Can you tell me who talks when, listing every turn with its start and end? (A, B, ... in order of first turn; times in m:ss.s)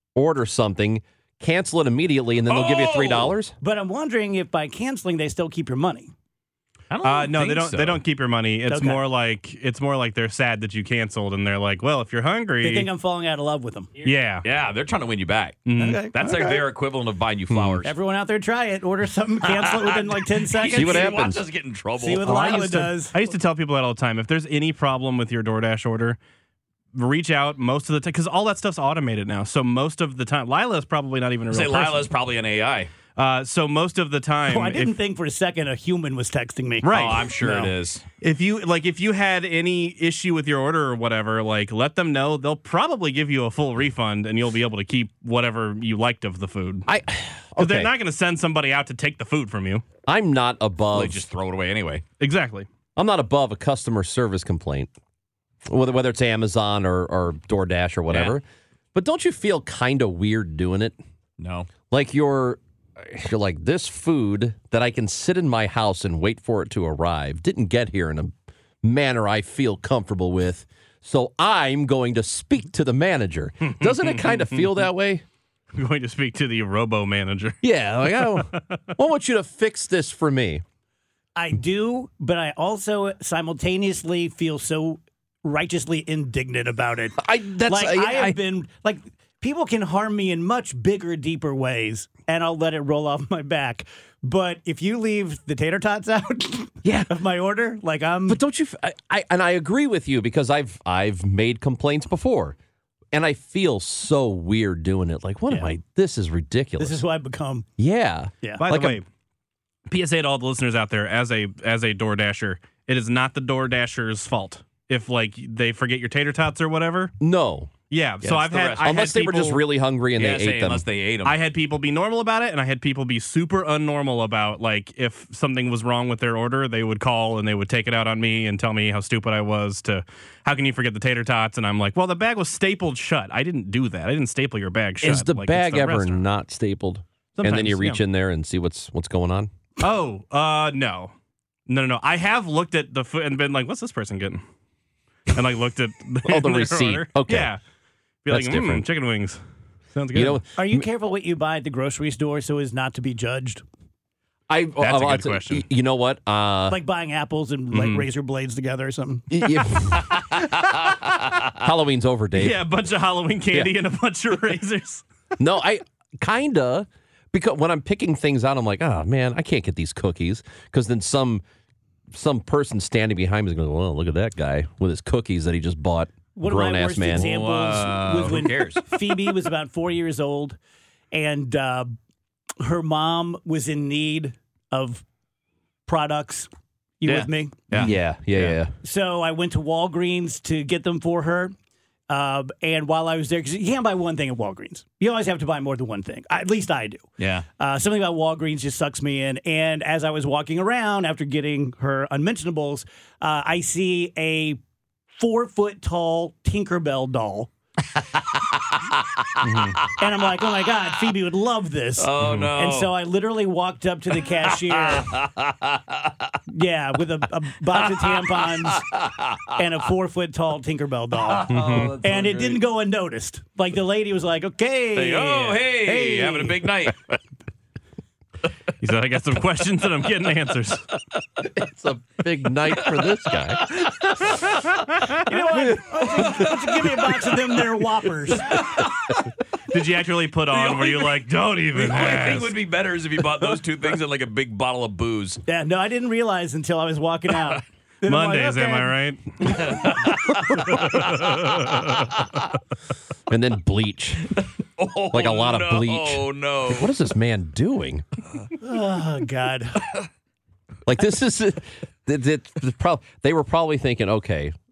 0:00.2-0:03.5 A
0:02.5-0:03.3 B
0:03.6-0:06.1 C
0:06.9-0:08.0 B
0:07.0-0:12.9 D
0:08.7-0:09.0 C
0:12.6-0:14.1 C
0:14.0-0:14.5 D
0:14.4-0:17.9 B
0:15.7-0:16.1 D
0:15.8-0:16.6 C
0:17.5-0:17.8 A
0:17.8-0:21.2 C
0:19.4-0:22.5 B
0:20.7-0:21.4 A
0:22.0-0:23.2 C
0:22.2-0:26.2 D
0:26.9-0:32.1 D
0:31.5-0:32.9 B
0:33.2-0:35.0 D
0:34.5-0:37.7 C
0:36.8-0:37.3 D
0:36.9-0:38.0 B
0:38.2-0:46.9 D
0:46.9-0:47.9 A
0:47.6-0:49.8 D
0:50.1-0:51.2 A
0:50.9-0:52.0 B
0:52.2-0:52.7 D
0:53.0-0:54.9 A
0:55.7-0:58.4 A
0:58.1-0:58.4 B
0:58.9-1:01.0 A
1:01.4-1:01.7 B
1:01.9-1:15.2 A
1:13.7-1:14.8 D
1:15.7-1:17.6 D
1:17.6-1:20.6 A
1:21.4-1:38.4 C
1:27.2-1:28.4 A
1:36.8-1:37.1 A
1:38.3-1:42.6 A
1:43.1-1:47.0 A
1:45.5-1:45.8 D
1:46.8-1:47.7 C
1:47.8-1:49.0 A
1:48.6-1:49.0 D
1:49.9-1:57.1 D
1:57.2-1:57.7 A
1:57.9-1:59.6 D
1:58.2-1:59.2 B
1:58.8-2:00.9 A
2:00.2-2:01.4 B
2:01.2-2:16.2 D
2:15.0-2:19.5 A
2:17.4-2:18.0 D
2:19.8-2:21.1 D
2:21.7-2:24.4 D
2:25.3-2:27.6 D
2:26.2-2:27.5 A
2:28.2-2:29.4 D
2:28.3-2:28.9 A
2:29.9-2:30.4 D
2:30.1-2:30.9 A
2:30.6-2:33.6 C
2:34.5-2:36.8 A
2:34.8-2:35.6 D
2:36.7-2:39.5 C
2:37.7-2:38.0 D
2:39.3-2:40.4 A
2:41.5-2:42.6 A
2:42.3-2:45.1 D
2:45.4-2:51.4 A
2:52.1-2:57.3 A
2:56.4-3:00.6 C
2:57.1-2:58.8 B
3:01.1-3:01.9 C
3:02.6-3:05.0 C
3:05.9-3:06.5 C
3:07.0-3:07.9 C
3:07.0-3:08.6 B
3:07.8-3:08.7 A
3:08.8-3:11.5 C
3:12.1-3:17.0 C
3:17.2-3:17.5 B
3:17.6-3:24.6 C
3:25.2-3:27.5 C
3:28.9-3:31.1 B
3:29.4-3:29.9 D
3:30.0-3:35.2 C
3:32.0-3:32.9 B
3:32.2-3:32.5 D
3:34.2-3:36.4 B
3:36.5-3:38.8 C
3:37.7-3:39.5 B
3:39.6-3:46.5 C
3:41.1-3:42.6 B
3:41.5-3:42.0 D
3:44.9-3:47.1 B
3:45.9-3:46.4 A
3:48.8-3:50.8 D
3:51.6-3:53.8 A
3:52.7-3:53.1 B
3:53.7-3:54.0 B
3:55.3-3:58.6 C
3:56.2-3:56.5 B
3:58.5-3:59.1 B
3:59.7-4:02.6 D
4:00.5-4:05.4 B
4:05.5-4:09.9 C
4:08.0-4:09.4 D
4:09.5-4:12.2 B
4:11.4-4:11.8 D
4:13.3-4:14.4 A
4:14.4-4:16.9 B
4:15.1-4:18.0 A
4:18.6-4:19.8 C
4:20.9-4:24.5 A